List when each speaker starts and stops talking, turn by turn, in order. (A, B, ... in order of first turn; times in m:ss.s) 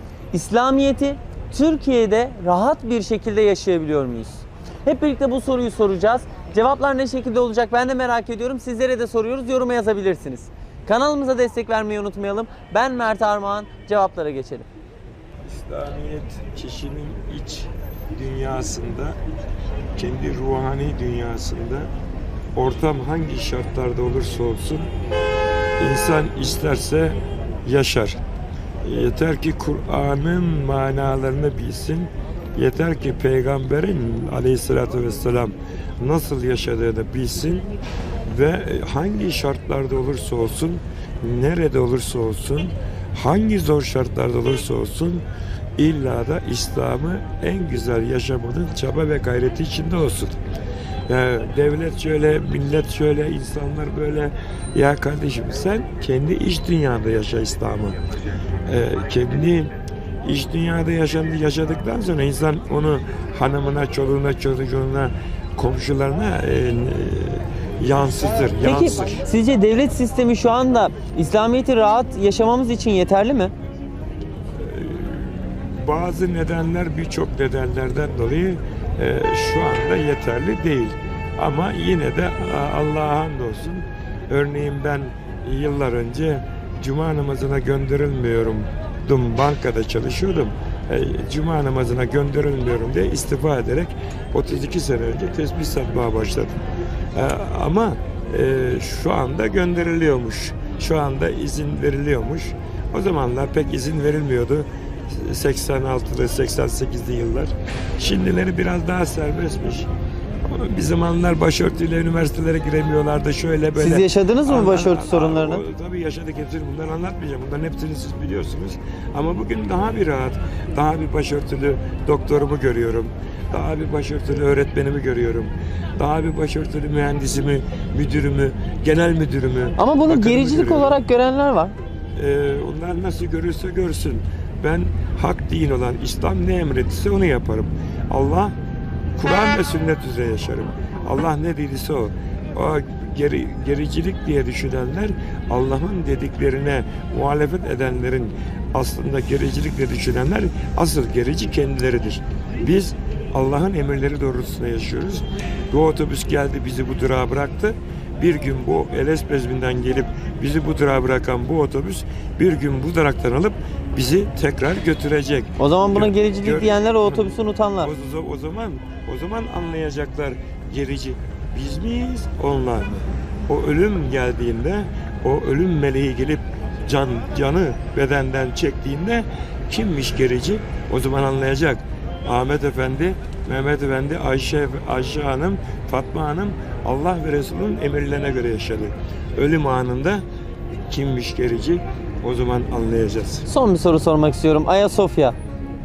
0:00.3-0:14.7 A
0:15.4-0:19.2 B
0:20.0-0:21.9 B
0:22.6-0:24.9 B
0:25.8-0:28.2 B
0:28.8-0:37.7 B
0:38.2-0:45.2 B
0:45.8-0:50.4 B
0:51.1-0:58.0 B
0:58.7-0:59.7 B
1:00.2-1:09.3 B
1:08.6-1:13.5 A
1:14.6-1:36.5 B
1:37.1-1:49.9 B
1:50.5-2:10.9 B
1:53.8-1:55.6 A
2:09.8-2:11.7 A
2:12.2-2:18.5 B
2:19.2-3:10.2 B
2:45.6-2:47.9 A
3:10.9-3:13.5 B
3:13.5-3:15.4 A